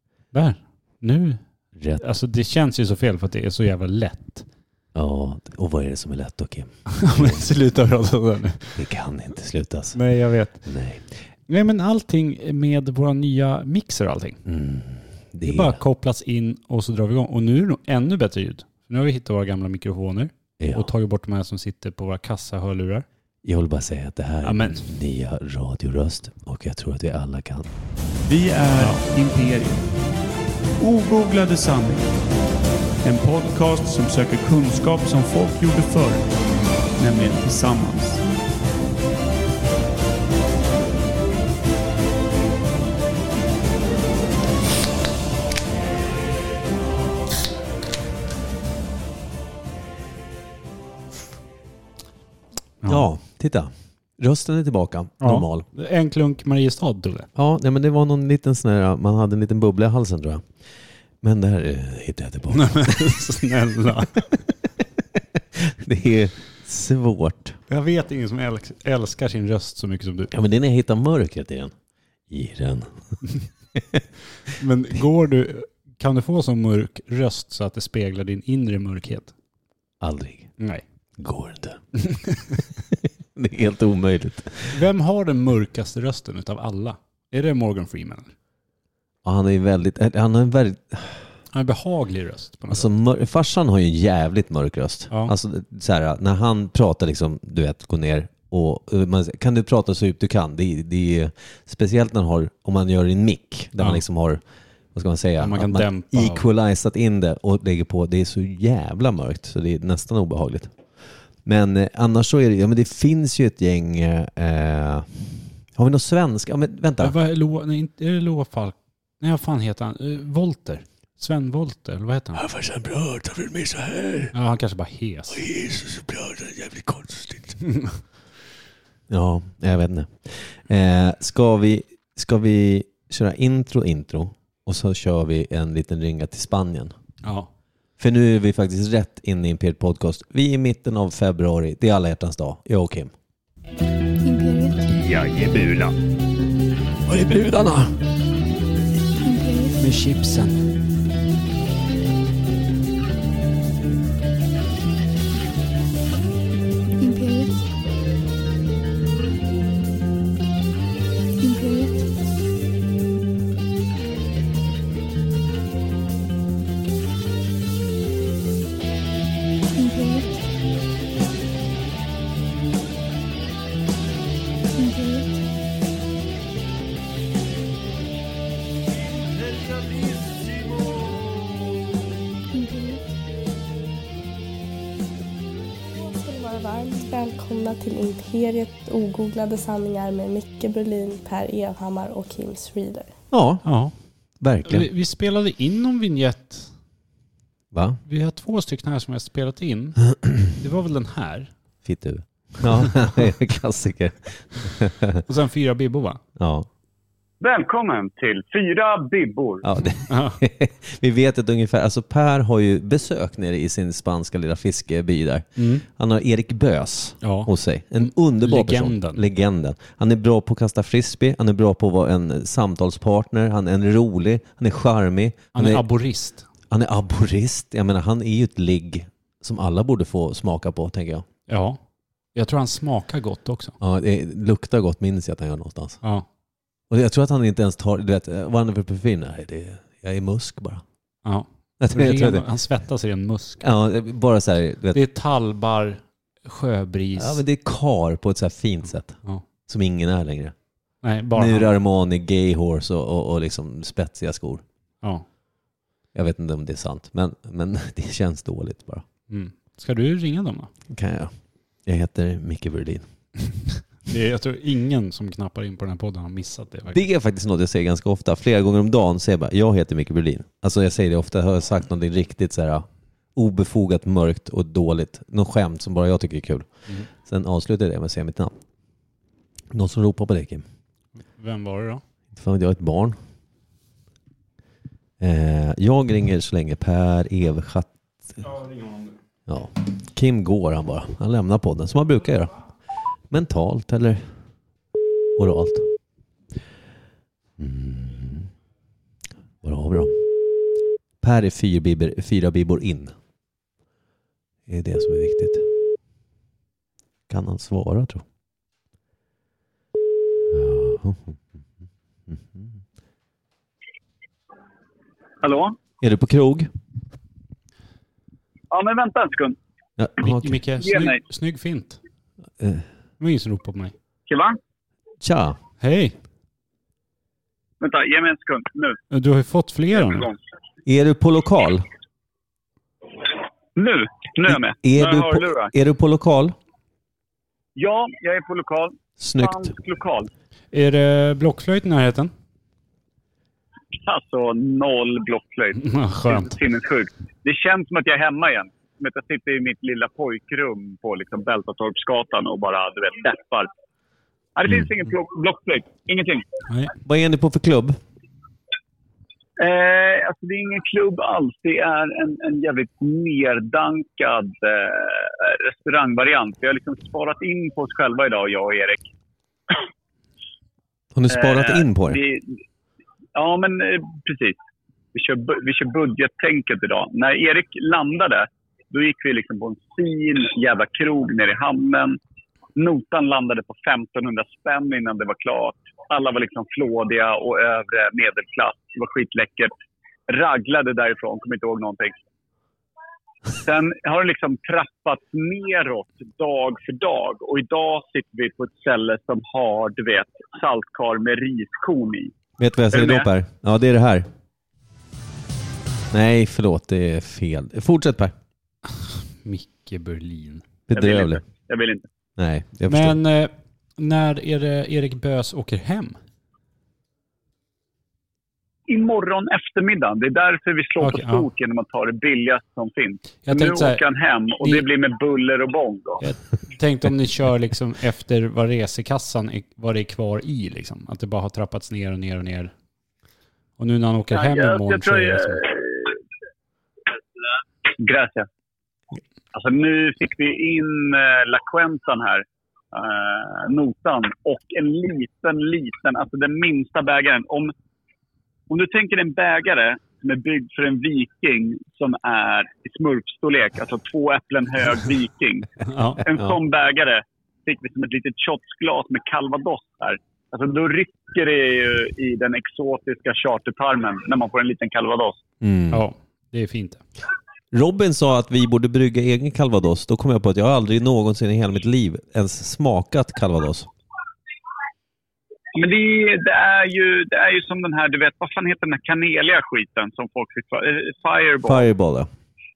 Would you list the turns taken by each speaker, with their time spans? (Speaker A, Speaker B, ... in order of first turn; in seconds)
Speaker A: 0.3-4.5, 7.0-8.8, 9.9-10.8, 11.5-14.4, 15.4-23.0, 24.4-24.9, 55.2-57.3, 62.5-64.4, 67.7-70.3, 74.6-79.3, 84.7-88.3, 91.5-92.9, 103.8-104.0, 105.4-106.4, 117.0-122.4, 124.3-125.4, 127.6-128.0, 137.2-137.5, 144.9-145.9, 149.8-150.6, 193.6-193.9, 194.6-196.7, 198.0-201.5, 205.2-206.2, 210.1-210.4, 215.6-215.8, 217.2-219.2, 225.5-226.4, 231.5-231.8, 232.3-233.8, 241.2-243.6, 244.9-247.4, 251.0-251.7, 259.3-260.7, 264.1-267.0, 281.3-282.0, 288.4-289.1, 320.2-322.0, 323.2-323.9, 325.8-326.1, 329.1-330.3, 340.7-342.3, 345.8-346.6, 409.4-410.7, 412.9-416.1, 421.0-421.4, 423.5-424.0, 426.2-432.7, 433.8-435.6, 455.8-456.3, 465.9-467.0
Speaker B: 4.9-7.4, 8.8-10.0, 10.7-11.1, 14.4-15.8, 20.6-20.9, 23.4-27.7, 52.9-55.6, 57.4-60.5, 61.2-63.1, 65.7-67.6, 70.3-71.7, 72.3-73.2, 80.0-80.5, 81.2-81.8, 83.3-84.8, 89.2-91.3, 92.7-104.4, 104.9-110.7, 111.4-115.2, 115.8-117.2, 122.4-124.3, 125.3-127.5, 129.1-136.9, 138.0-143.1, 147.1-147.9, 193.3-193.7, 194.4-194.9, 197.7-198.0, 201.8-205.2, 206.4-206.7, 209.6-225.8, 226.7-231.2, 233.8-236.0, 236.9-240.8, 241.8-242.4, 243.6-245.0, 247.2-250.5, 251.3-254.6, 256.1-259.0, 260.9-261.3, 261.9-263.1, 266.9-278.5, 279.7-280.6, 282.3-283.2, 285.2-288.4, 289.5-292.5, 293.3-294.3, 295.4-295.9, 297.6-298.5, 299.6-300.2, 301.2-303.1, 304.7-305.6, 307.3-308.2, 310.5-311.4, 312.3-312.7, 316.0-316.7, 320.0-320.6, 322.6-322.8, 325.2-325.6, 330.9-331.9, 334.5-336.6, 339.2-339.6, 357.0-358.0, 371.1-372.2, 402.6-404.3, 406.1-408.3, 410.9-411.4, 412.4-413.2, 465.6-466.0, 467.7-473.9, 481.6-482.3
Speaker C: 28.2-29.8, 30.8-32.1, 33.0-36.3, 37.0-38.2
Speaker D: 144.2-144.9, 149.2-149.8, 157.0-157.6, 161.4-162.1, 169.8-170.4, 174.8-175.4, 182.5-183.0
Speaker E: 186.0-193.1
Speaker F: 207.4-209.6, 315.4-315.8, 318.7-319.6, 320.8-321.2, 324.3-324.6, 327.8-329.0, 329.9-330.4, 333.8-335.7, 337.8-340.3, 344.0-353.7, 354.6-356.4, 359.6-369.0, 371.3-372.6, 373.3-374.6, 375.1-382.2, 382.8-389.7, 390.3-392.2, 393.6-402.3, 402.9-403.3, 410.9-412.1, 418.9-426.2, 434.3-436.2, 438.0-438.5, 439.5-447.7, 448.7-465.4, 475.7-481.8